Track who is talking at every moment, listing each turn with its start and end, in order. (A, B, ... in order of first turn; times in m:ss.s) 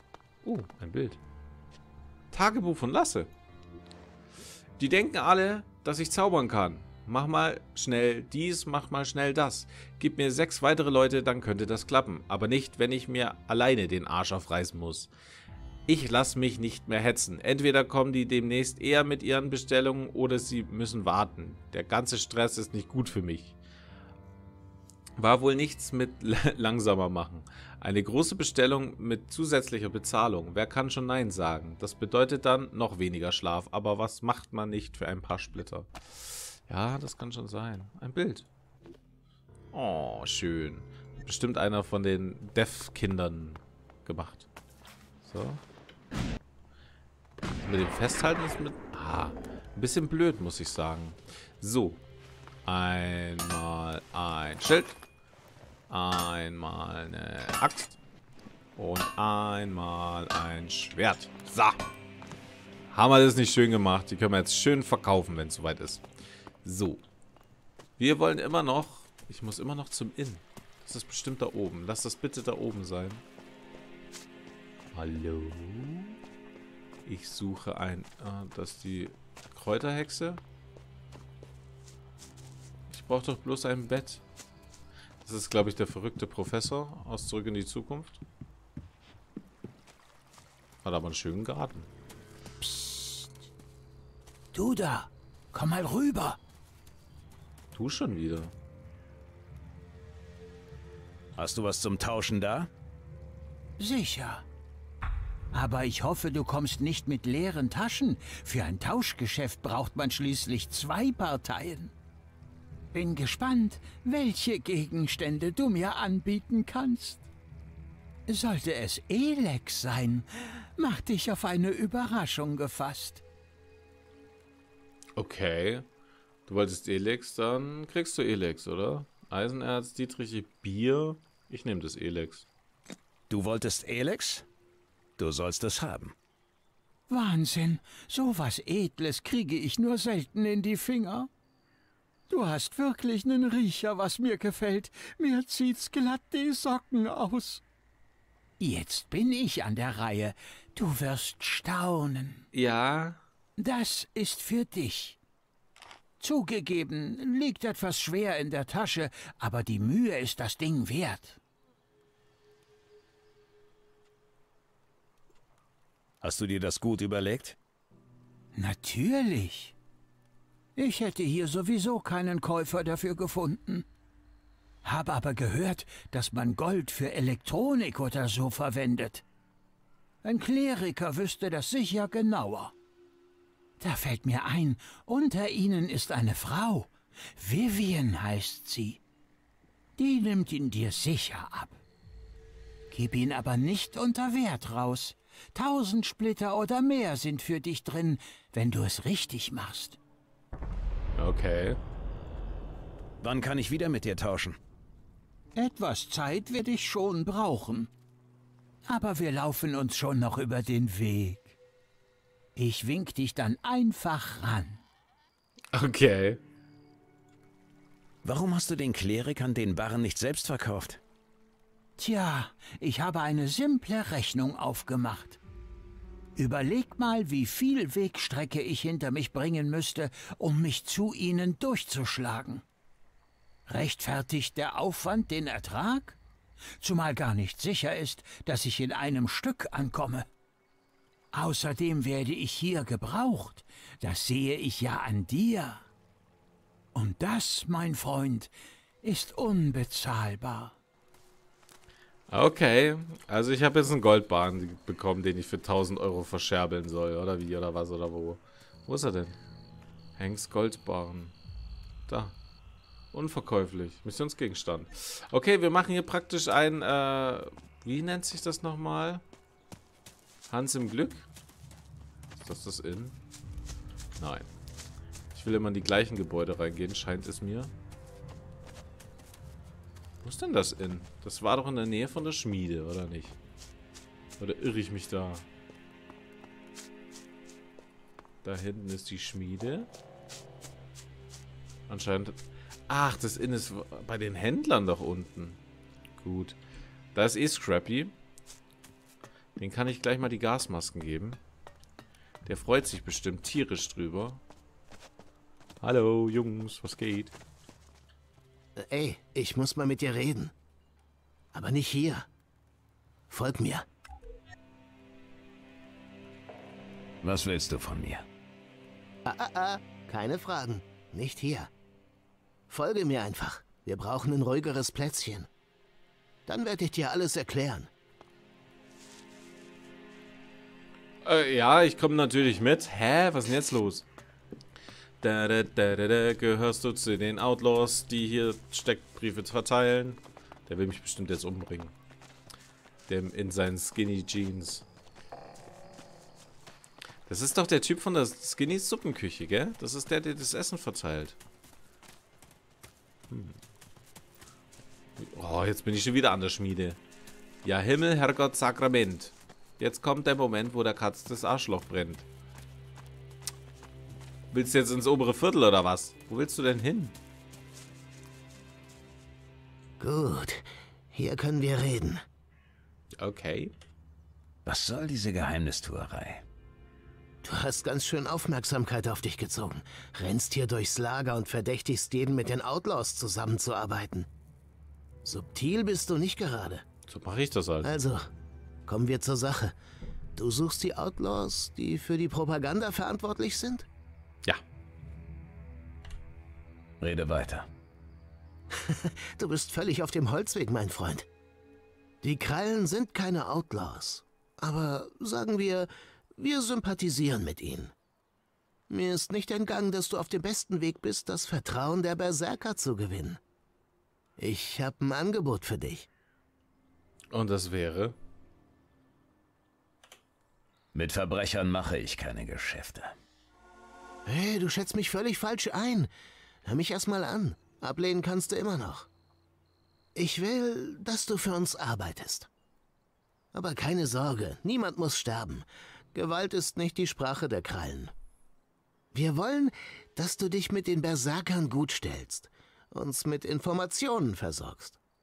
0:00.4-0:01.2 A
0:02.3-0:03.3 A
0:04.8-0:15.1 A
0:15.9-0:23.6 A
0:25.2-0:38.5 A
0:39.7-0:44.5 A
0:45.2-0:45.6 A
0:47.6-0:52.0 A
0:52.6-0:54.9 A
0:55.9-0:58.0 A
0:58.8-1:01.8 A
1:02.9-1:06.0 A
1:06.6-1:07.0 A
1:08.0-1:13.2 A
1:14.9-1:16.2 A
1:17.0-1:20.4 A
1:22.9-1:24.2 A
1:25.2-1:28.2 A
1:30.8-1:31.9 A
1:32.6-1:33.3 B
1:34.5-1:36.4 B
1:37.7-1:38.5 A
1:41.4-1:42.7 C
1:43.8-1:44.4 B
1:45.5-1:51.9 B
1:52.9-1:57.3 B
1:58.3-2:03.2 B
2:05.2-2:05.8 A
2:06.5-2:12.4 A
2:13.3-2:14.4 C
2:15.2-2:16.1 C
2:17.1-2:21.3 B
2:22.3-2:27.6 B
2:28.6-2:32.4 B
2:32.5-2:33.2 A
2:33.6-2:35.2 B
2:36.2-2:41.4 B
2:46.2-2:47.6 C
2:48.5-2:49.7 B
2:50.8-2:53.8 B
2:54.8-2:59.2 B
3:00.2-3:02.7 B
3:03.8-3:09.0 B
3:10.0-3:11.8 B
3:12.9-3:20.0 B
3:21.2-3:21.8 A
3:23.2-3:24.6 C
3:25.6-3:27.9 B
3:28.8-3:31.6 B
3:32.6-3:34.8 B
3:35.7-3:36.4 A
3:38.2-3:41.0 C
3:42.0-3:45.4 B
3:46.4-3:52.6 B
3:53.7-3:56.2 B
3:56.8-4:00.2 B
4:01.3-4:05.8 B
4:06.9-4:08.5 B
4:09.0-4:10.7 B
4:12.3-4:19.4 A
4:20.2-4:21.3 A
4:22.1-4:22.4 A
4:23.1-4:29.2 A
4:30.5-4:31.3 A
4:32.4-4:33.2 A
4:34.2-4:34.5 A
4:35.3-4:37.7 A
4:40.2-4:43.4 A
4:44.4-4:45.4 A
4:48.4-4:49.9 A
4:51.9-4:52.4 A
4:52.9-4:55.6 A
4:56.2-4:56.6 A
4:57.1-4:58.1 A
4:59.6-5:01.4 A
5:02.4-5:04.4 A
5:05.8-5:07.3 A
5:08.8-5:10.5 D
5:11.5-5:12.3 D
5:13.3-5:13.8 D
5:17.2-5:18.2 C
5:19.2-5:21.7 D
5:22.7-5:25.5 D
5:26.5-5:27.9 D
5:31.2-5:34.0 A
5:35.2-5:41.9 A
5:43.1-5:44.8 A
5:47.3-5:51.4 A
5:53.3-5:53.6 A
5:55.2-5:57.0 A
5:57.6-6:02.2 A
6:04.5-6:07.1 A
6:10.0-6:12.2 D
6:13.2-6:13.7 A
6:14.6-6:16.4 C
6:17.4-6:24.3 D
6:25.2-6:26.8 D
6:27.1-6:27.9 A
6:27.8-6:28.3 D
6:28.9-6:29.7 D
6:30.4-6:33.9 D
6:37.0-6:37.7 C
6:38.7-6:41.3 D
6:42.2-6:47.9 D
6:48.9-6:53.4 D
6:54.4-6:56.1 D
6:57.3-6:58.2 A
7:00.9-7:03.1 C
7:04.2-7:06.1 D
7:06.6-7:09.1 D
7:10.1-7:12.5 D
7:13.5-7:18.1 D
7:19.1-7:25.0 D